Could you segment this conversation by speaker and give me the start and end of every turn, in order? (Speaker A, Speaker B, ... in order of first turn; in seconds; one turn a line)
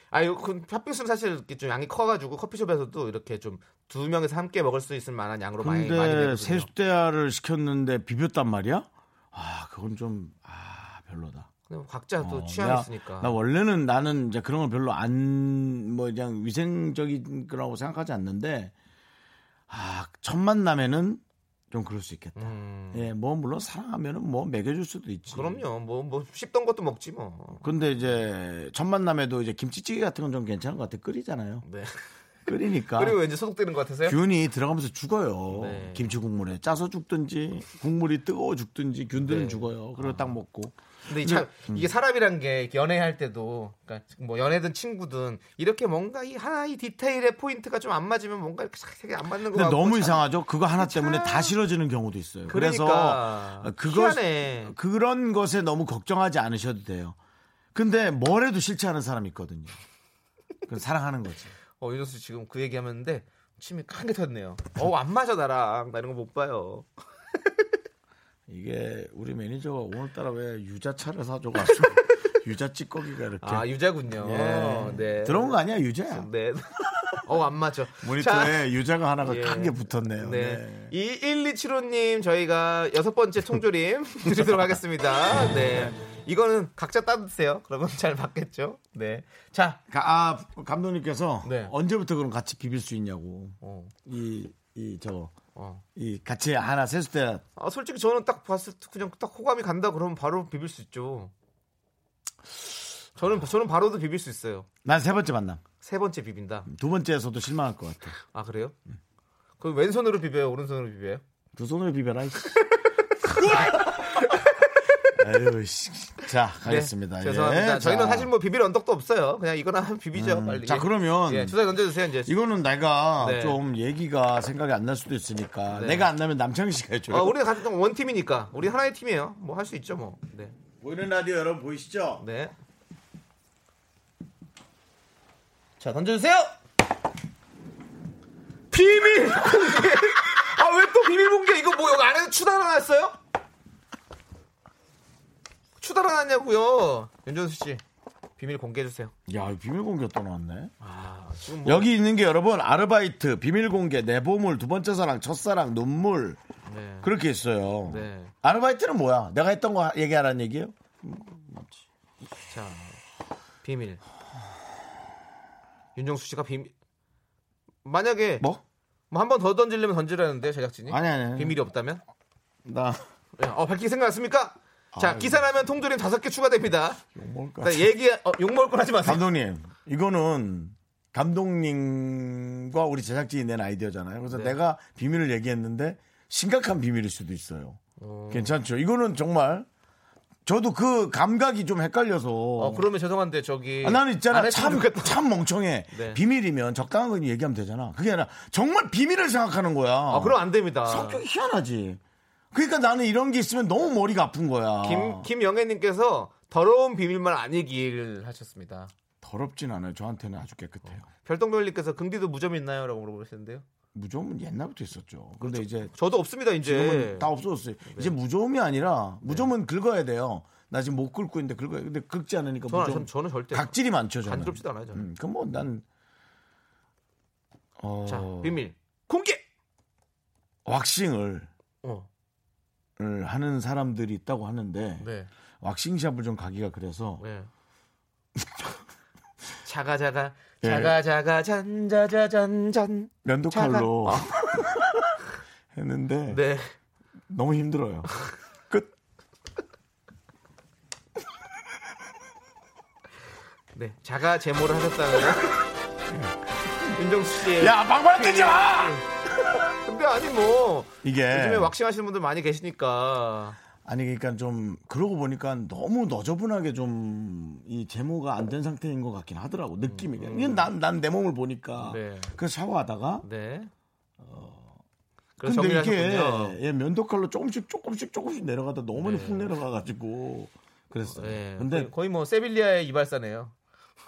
Speaker A: 0.1-6.7
Speaker B: 5.6-11.5
Speaker A: 11.7-13.3
Speaker B: 12.2-18.7
Speaker B: 19.7-25.6
Speaker A: 22.4-23.1
Speaker A: 25.3-27.7
Speaker B: 27.6-31.6
Speaker A: 31.7-32.0
Speaker B: 32.5-33.2
Speaker A: 32.9-34.2
Speaker B: 34.1-41.9
Speaker A: 35.5-36.1
Speaker A: 39.2-40.3
Speaker A: 41.1-50.2
Speaker B: 49.5-57.2
Speaker A: 50.8-51.5
Speaker A: 52.5-54.8
Speaker B: 57.7-59.8
Speaker B: 60.7-61.5
Speaker A: 61.8-66.9
Speaker B: 68.5-73.7
Speaker A: 73.4-75.6
Speaker B: 74.2-76.3
Speaker A: 76.1-78.6
Speaker B: 76.9-77.2
Speaker B: 78.0-80.9
Speaker A: 79.2-89.8
Speaker B: 85.7-86.0
Speaker B: 89.9-95.3
Speaker A: 91.5-91.7
Speaker A: 93.6-93.9
Speaker A: 95.6-95.8
Speaker B: 96.0-97.5
Speaker A: 97.6-101.3
Speaker A: 103.2-104.7
Speaker B: 104.8-105.6
Speaker A: 105.8-106.7
Speaker B: 106.7-108.2
Speaker A: 108.3-108.8
Speaker A: 109.6-111.2
Speaker B: 111.6-112.6
Speaker A: 113.2-114.7
Speaker B: 113.3-114.1
Speaker B: 115.2-118.3
Speaker A: 116.7-122.3
Speaker B: 120.1-121.6
Speaker B: 122.2-127.4
Speaker A: 123.2-123.6
Speaker A: 125.7-126.1
Speaker A: 127.1-130.6
Speaker B: 130.8-132.2
Speaker A: 132.2-132.5
Speaker A: 135.8-136.5
Speaker A: 138.7-143.2
Speaker A: 145.8-147.8
Speaker A: 148.4-149.1
Speaker B: 149.3-150.7
Speaker A: 150.8-151.9
Speaker B: 151.6-156.4
Speaker A: 156.7-157.1
Speaker B: 157.0-161.8
Speaker A: 157.9-158.3
Speaker A: 162.5-163.0
Speaker A: 163.6-164.0
Speaker A: 166.0-166.7
Speaker A: 167.8-168.5
Speaker A: 169.1-172.0
Speaker B: 170.9-171.6
Speaker B: 172.7-173.1
Speaker A: 173.4-177.0
Speaker B: 174.9-175.5
Speaker B: 177.2-177.9
Speaker A: 177.6-179.2
Speaker B: 179.0-187.8
Speaker A: 184.3-184.6
Speaker A: 188.0-188.6
Speaker B: 188.3-189.7
Speaker B: 190.4-192.9
Speaker A: 192.6-195.2
Speaker B: 193.8-202.0
Speaker A: 195.9-196.2
Speaker A: 200.1-201.2
Speaker B: 202.5-205.3
Speaker A: 204.8-208.9
Speaker B: 209.2-211.1
Speaker A: 211.0-213.7
Speaker B: 213.9-215.9
Speaker A: 215.4-217.3
Speaker B: 216.6-225.8
Speaker A: 217.8-218.1
Speaker A: 219.2-219.5
Speaker A: 222.7-225.1
Speaker B: 227.8-228.6
Speaker A: 228.1-229.4
Speaker B: 230.7-231.5
Speaker A: 231.8-232.1
Speaker B: 233.0-235.1
Speaker A: 235.0-235.3
Speaker B: 235.6-237.2
Speaker A: 237.2-237.5
Speaker B: 238.4-238.7
Speaker A: 239.7-244.7
Speaker B: 240.6-241.0
Speaker B: 243.2-245.1
Speaker B: 245.7-246.4
Speaker A: 246.3-246.7
Speaker B: 247.3-248.1
Speaker A: 253.8-255.6
Speaker B: 256.1-256.4
Speaker A: 256.9-259.0
Speaker B: 257.6-259.6
Speaker A: 259.9-263.6
Speaker B: 261.0-261.7
Speaker B: 263.8-273.3
Speaker A: 269.9-270.7
Speaker A: 271.8-272.4
Speaker A: 273.2-273.7
Speaker B: 274.2-274.8
Speaker A: 275.4-276.6
Speaker B: 275.4-281.9
Speaker A: 278.9-279.5
Speaker A: 281.1-283.5